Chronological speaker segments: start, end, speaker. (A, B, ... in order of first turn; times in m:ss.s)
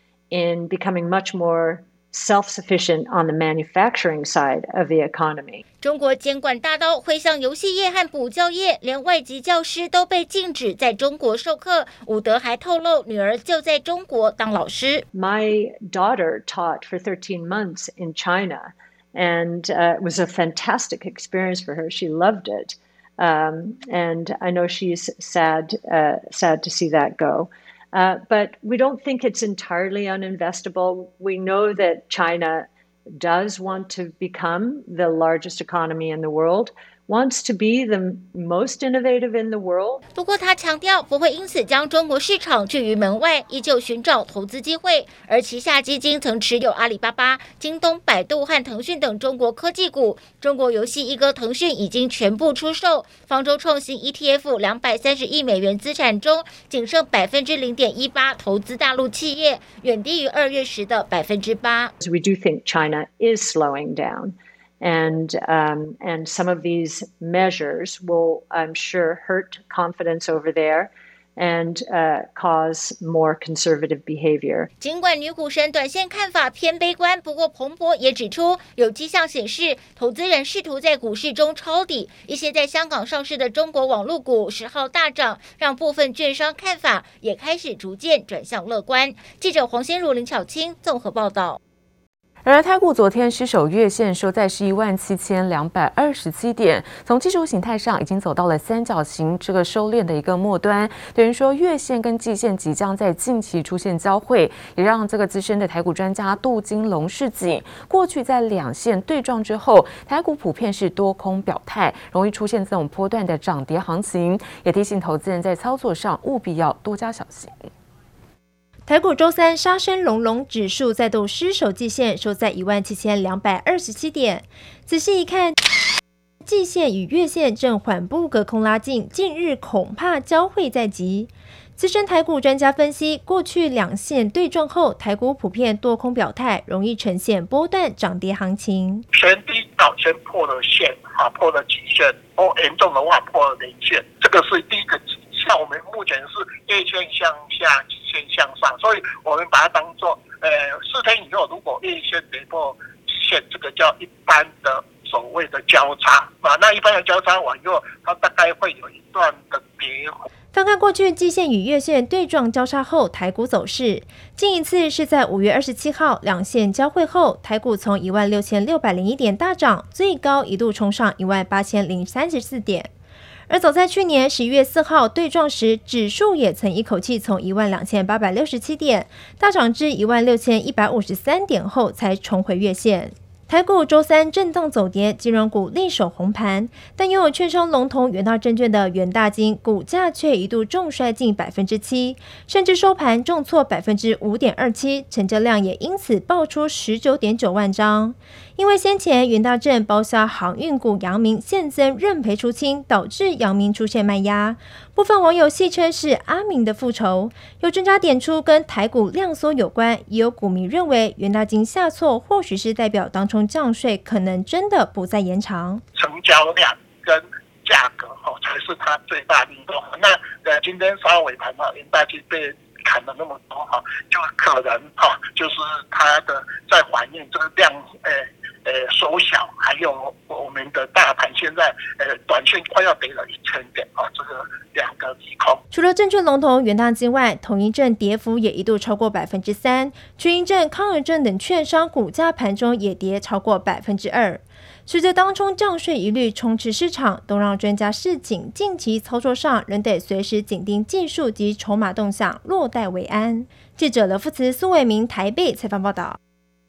0:00.3-0:05.6 A
0:05.8-0:15.0 B
0:15.2-0:40.0 A
0:40.2-1:01.9 B
1:02.0-1:14.7 A
1:14.8-1:31.6 B
1:32.4-1:57.7 C
1:58.9-2:05.6 D
2:06.4-2:19.0 D
2:19.1-2:40.2 E
2:40.5-2:52.9 D
2:53.5-3:35.8 D
3:36.0-3:48.2 E
3:48.7-3:55.6 E
3:55.7-4:16.2 D